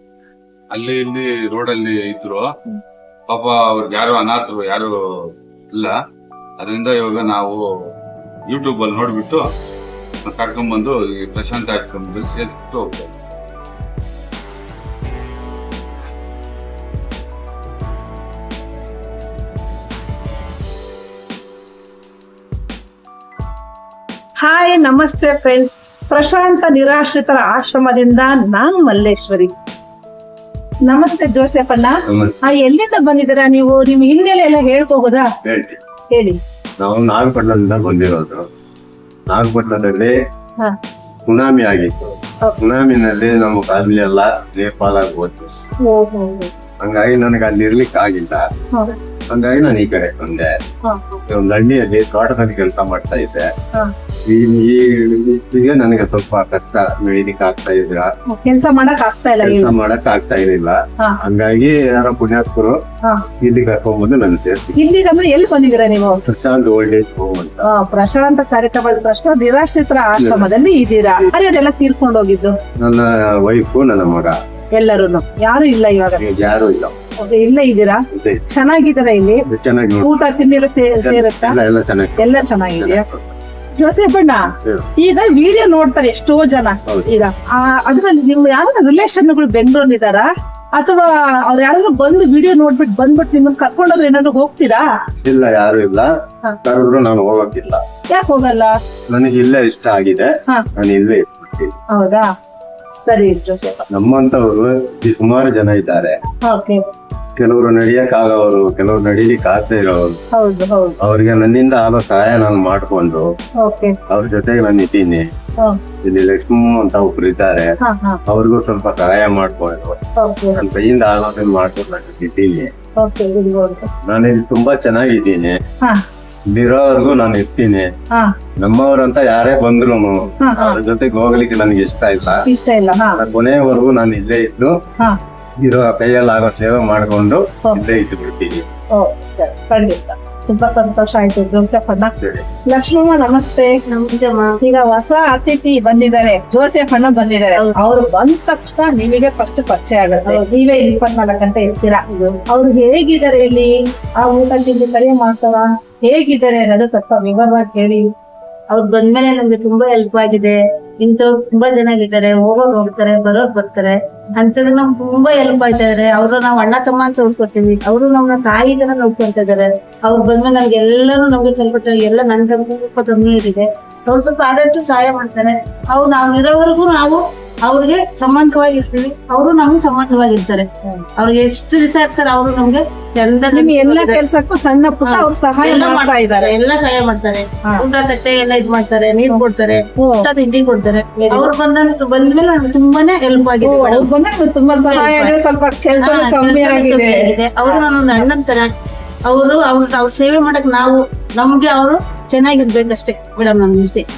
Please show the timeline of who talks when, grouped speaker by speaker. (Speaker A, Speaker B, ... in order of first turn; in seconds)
Speaker A: 0.7-2.5, 3.3-4.9, 6.6-7.7, 8.5-9.4, 10.2-13.1
Speaker B: 24.4-29.5, 30.9-35.3, 36.1-36.4, 45.8-46.5, 50.9-51.2, 58.3-59.7, 64.8-66.2, 67.6-72.5, 74.8-76.2, 77.2-79.5, 80.0-81.6, 82.2-83.0, 83.8-94.8, 98.1-98.7, 101.9-102.2, 103.0-103.8, 106.4-106.8, 110.3-111.0, 113.6-114.0, 117.8-118.2, 120.2-120.6, 123.0-123.9, 130.4-130.8, 132.4-133.2, 138.9-142.1, 142.7-143.7, 144.6-153.7, 154.2-158.1, 183.5-186.5, 190.0-190.3, 191.2-191.5, 193.6-198.3
Speaker C: 32.1-32.4, 35.4-35.8, 36.8-38.4, 39.3-40.1, 41.3-45.5, 46.8-48.5, 49.3-50.5, 51.3-53.5, 54.3-58.1, 59.4-62.8, 63.4-64.8, 66.2-67.6, 70.2-70.5, 72.8-74.3, 76.2-76.9, 78.1-78.4, 79.5-80.1, 80.9-83.3, 95.2-96.1, 96.6-97.8, 99.1-101.8, 103.9-106.2, 107.4-110.2, 111.0-113.3, 114.1-115.2, 116.0-117.7, 118.3-120.0, 120.5-122.7, 124.0-125.6, 126.5-127.9, 128.6-132.4, 133.2-134.7, 135.6-138.6, 142.1-142.4
Speaker D: 140.5-141.3, 143.9-144.6, 158.7-184.2, 185.0-194.1, 194.7-195.3, 196.0-198.7, 199.3-204.1